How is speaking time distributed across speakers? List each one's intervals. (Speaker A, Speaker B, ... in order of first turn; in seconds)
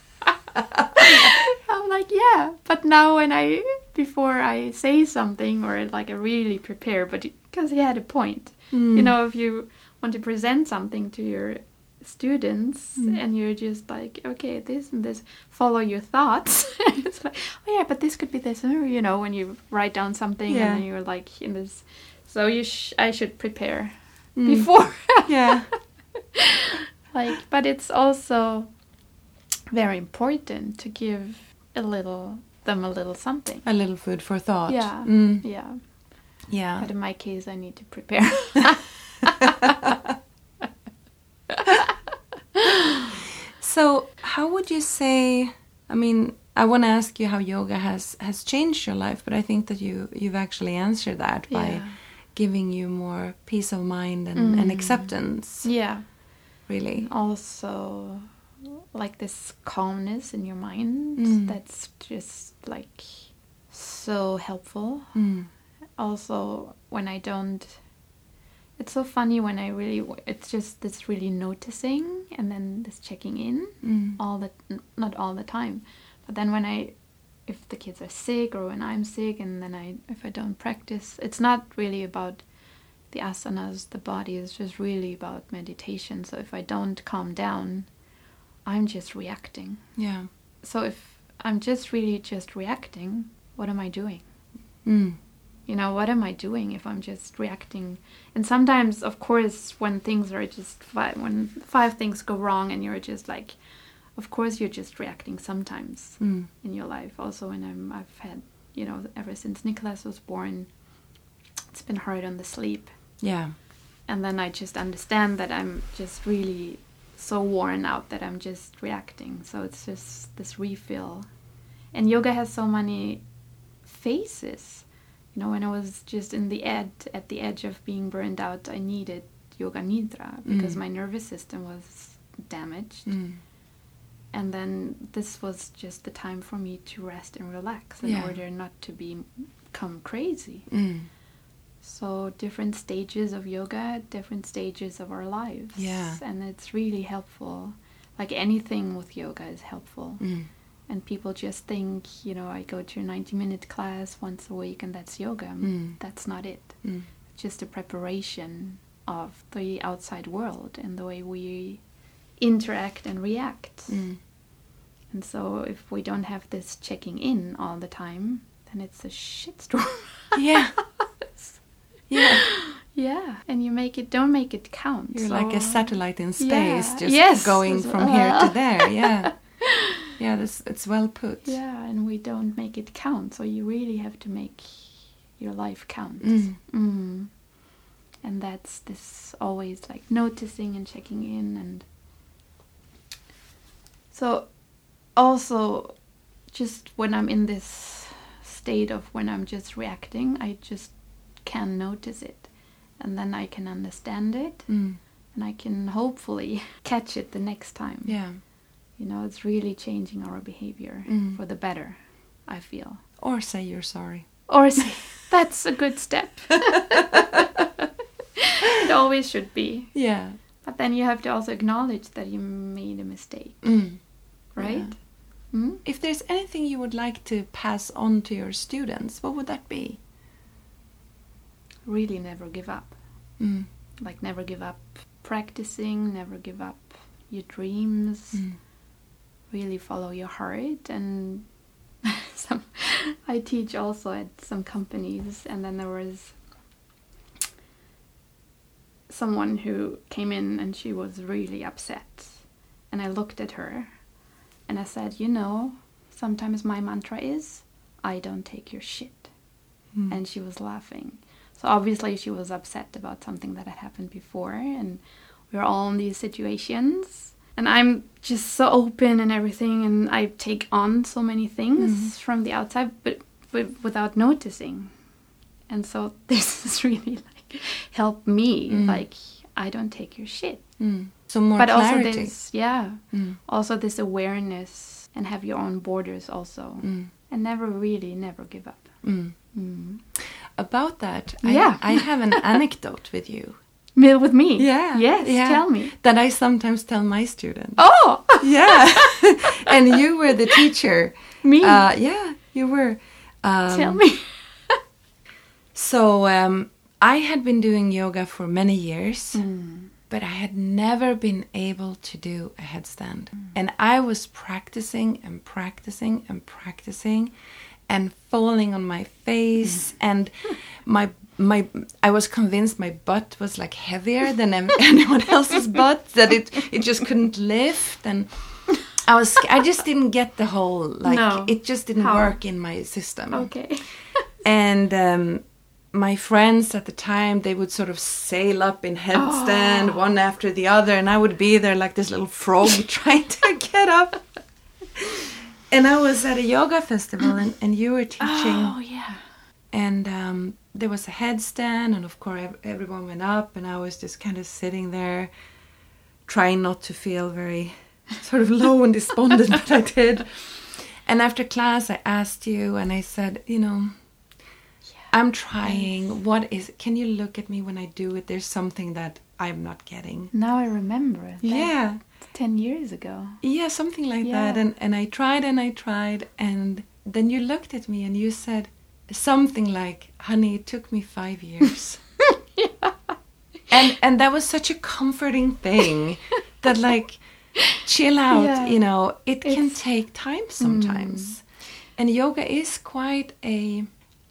Speaker A: 0.8-1.3, 8.7-9.1, 20.5-20.8, 24.4-25.7, 33.6-35.5, 36.5-36.9, 43.6-55.7, 56.7-57.1, 61.2-61.5, 65.2-65.5, 73.8-74.2, 90.0-90.3, 94.8-95.2, 106.2-106.5, 113.2-113.5, 130.4-130.8, 133.1-133.4, 138.0-138.3, 140.7-141.1, 145.8-146.2, 150.2-150.5, 155.6-156.0, 163.9-164.2, 170.3-170.8, 172.1-172.5, 175.1-181.6, 186.2-186.6, 204.7-205.0, 208.1-208.4, 211.1-211.4, 213.2-215.0, 219.9-220.4, 223.6-225.0, 225.8-230.0, 233.4-233.7, 271.8-272.1, 278.7-279.0, 280.8-282.5, 283.1-283.4, 286.8-287.1, 289.0-289.3, 290.2-293.6, 294.6-304.1, 305.7-309.4, 310.1-317.3, 317.9-333.7, 334.4-344.3, 345.7-348.8, 349.7-355.3, 356.3-363.9, 365.1-370.3, 371.4-372.0, 373.4-382.1, 383.7-391.4, 392.0-393.9
Speaker B: 0.9-25.6, 26.4-28.8, 29.7-33.7, 34.7-39.9, 41.5-41.8, 51.5-52.0, 54.4-58.4, 58.9-65.2, 66.0-67.8, 68.8-82.5, 83.1-87.9, 88.7-89.9, 90.6-94.3, 95.7-103.6, 104.2-110.7, 111.7-112.9, 114.1-121.3, 121.9-123.2, 123.8-133.1, 134.3-140.7, 141.8-150.3, 150.9-161.8, 162.4-164.0, 165.1-170.6, 172.2-179.3, 181.4-187.3, 188.2-191.8, 194.1-194.6, 195.1-196.0, 196.5-204.8, 205.3-208.2, 209.0-213.0, 214.5-217.8, 218.4-220.1, 220.6-223.8, 224.5-225.8, 231.9-233.0, 234.0-238.4, 239.5-241.5, 242.0-246.4, 249.1-253.9, 254.7-259.3, 260.1-274.9, 275.7-280.8, 281.6-290.0, 291.4-292.5, 294.0-295.9, 297.8-299.2, 301.4-301.8, 303.7-304.8, 309.3-309.9, 331.1-332.4, 333.3-334.2, 339.1-340.0, 348.2-349.2, 370.3-373.4, 374.2-374.6, 382.6-383.1, 388.3-388.8, 389.4-389.8, 390.6-391.4